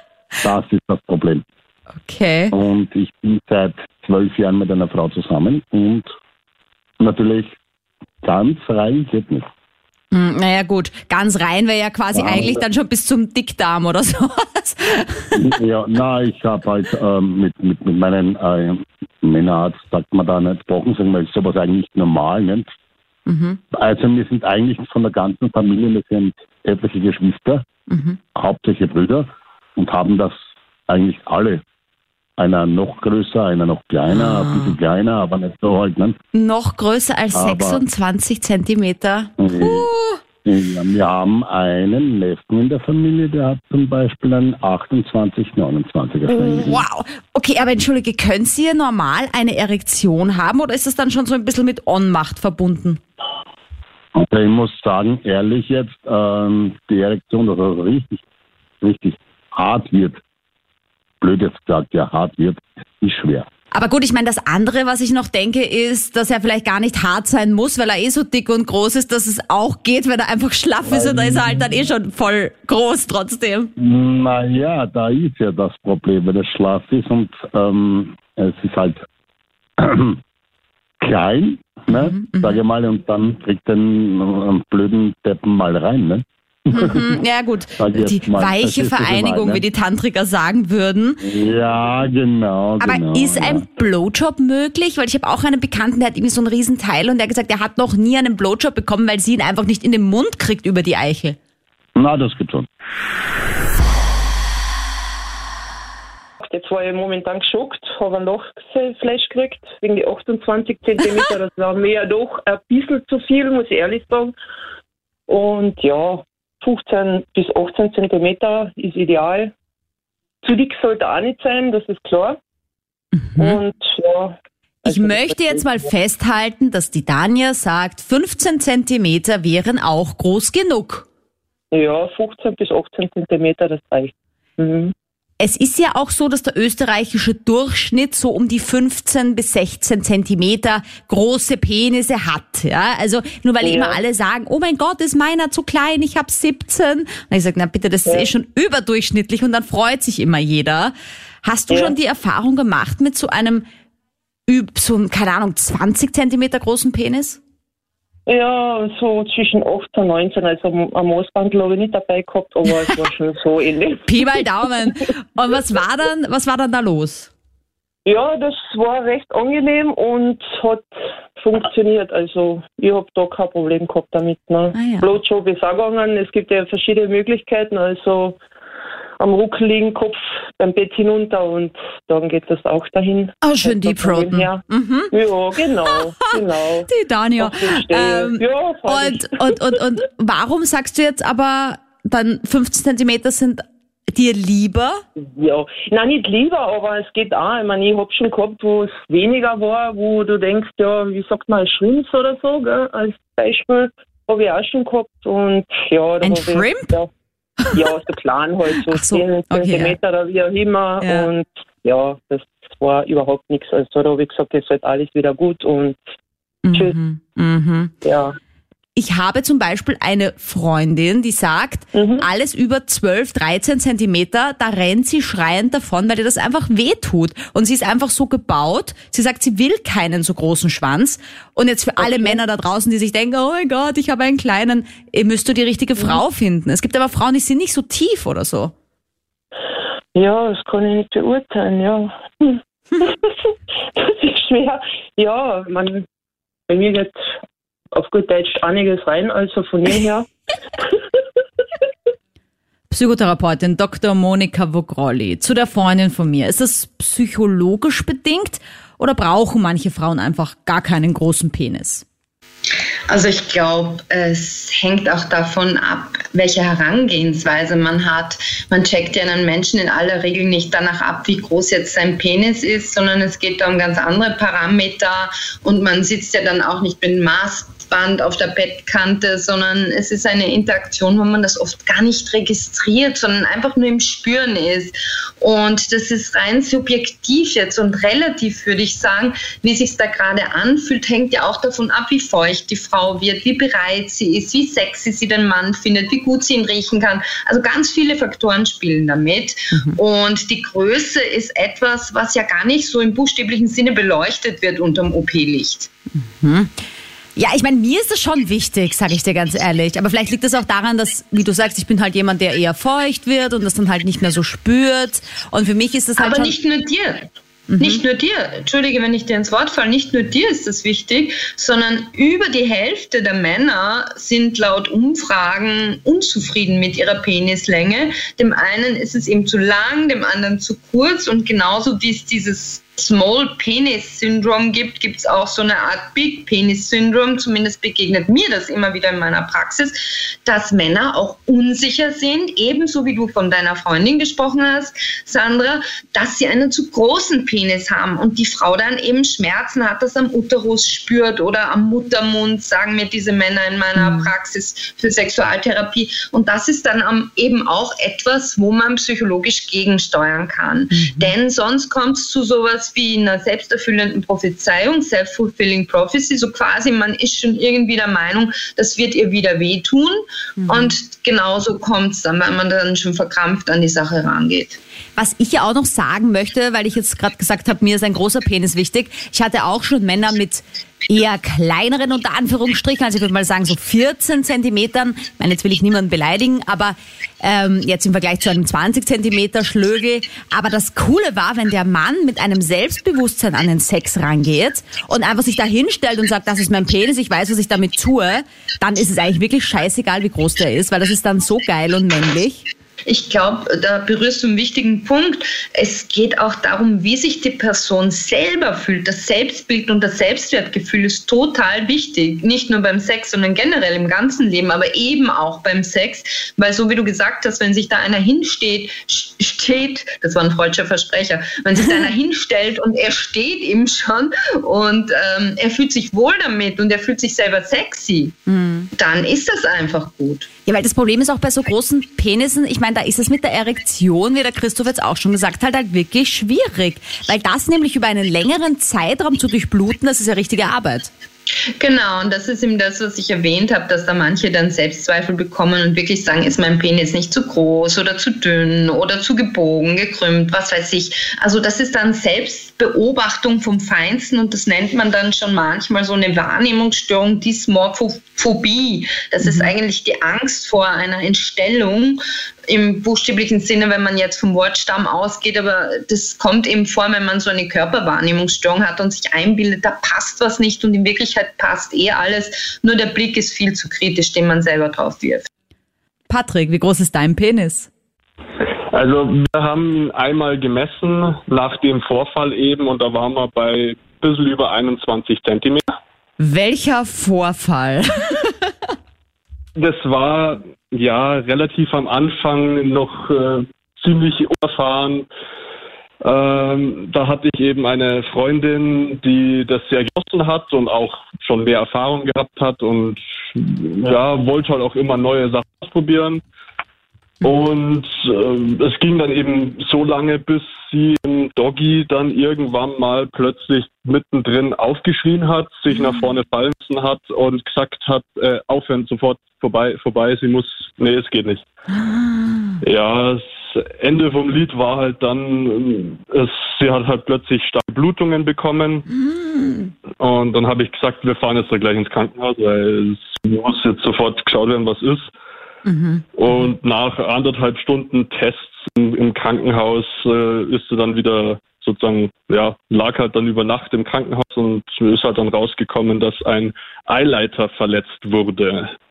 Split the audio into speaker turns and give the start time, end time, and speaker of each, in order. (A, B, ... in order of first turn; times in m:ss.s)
0:00.4-0:01.4 A
0:02.0-0:02.5 B
0:02.5-0:06.1 A
0:07.0-0:07.6 A
0:08.2-0:09.5 A
0:10.1-0:15.4 B
0:12.1-0:12.6 A
0:15.3-0:22.7 A
0:23.2-0:23.6 B
0:23.7-0:27.6 A
0:27.9-0:28.2 B
0:28.3-0:30.4 A
0:30.9-0:31.6 A
0:32.4-0:36.2 A
0:34.1-0:34.8 B
0:36.3-0:40.2 B
0:37.3-0:37.8 A
0:39.4-0:39.9 A
0:40.4-0:46.8 A
0:46.3-0:53.0 B
0:54.1-0:58.2 A
0:58.8-1:00.2 A
1:01.2-1:03.5 A
1:03.7-1:13.7 B
1:10.8-1:11.7 A
1:13.8-1:19.0 A
1:19.8-1:20.2 A
1:21.0-1:27.1 A
1:21.9-1:22.6 B
1:26.7-1:31.2 B
1:27.8-1:29.6 A
1:31.2-1:33.6 A
1:32.8-1:41.4 B
1:42.0-1:42.7 A
1:46.4-1:54.3 C
1:55.3-1:59.5 C
2:00.4-2:02.4 C
2:03.1-2:03.6 B
2:03.4-2:05.9 C
2:04.8-2:11.0 B
2:11.7-2:14.9 C
2:15.4-2:33.6 B
2:23.6-2:24.0 C
2:31.7-2:31.9 C
2:34.5-2:37.4 B
2:38.3-2:44.4 C
2:44.1-2:47.3 B
2:48.0-2:58.4 C
2:54.7-2:55.1 B
2:59.2-3:09.6 C
3:03.4-3:05.2 B
3:05.8-3:06.3 B
3:06.9-3:15.0 B
3:15.2-3:27.1 C
3:26.2-3:27.0 B
3:27.6-3:27.9 B
3:27.7-3:36.0 C
3:28.9-3:30.0 B
3:31.0-3:31.3 B
3:36.6-3:37.9 B
3:38.0-3:38.4 C
3:39.0-3:58.7 B
3:41.9-3:42.2 C
3:52.0-3:52.4 C
4:00.1-4:03.3 C
4:04.0-4:06.0 C
4:06.7-4:07.2 C
4:07.9-4:10.2 C
4:12.9-4:22.0 B
4:23.1-5:05.9 D
4:59.7-5:00.0 B
5:06.2-5:06.7 B
5:07.4-5:16.5 B
5:16.2-6:14.8 D
5:17.7-5:18.0 B
5:54.0-5:54.3 B
6:00.9-6:01.3 B
6:10.6-6:10.9 B
6:15.2-6:42.6 B
6:43.1-7:08.3 D
7:08.5-7:08.9 B
7:08.9-7:10.5 D
7:10.6-7:21.1 B
7:21.8-7:55.5 D
7:39.4-7:39.7 B
7:56.3-7:57.9 B
7:58.9-8:05.8 E
8:06.4-8:08.6 B
8:09.8-8:15.2 E
8:16.2-8:26.4 E
8:27.4-8:41.6 E
8:35.9-8:36.2 B
8:41.9-8:42.8 B
8:42.8-8:49.0 E
8:49.1-8:49.9 B
8:50.2-8:55.3 E
8:55.8-8:56.7 B
8:56.4-9:08.9 E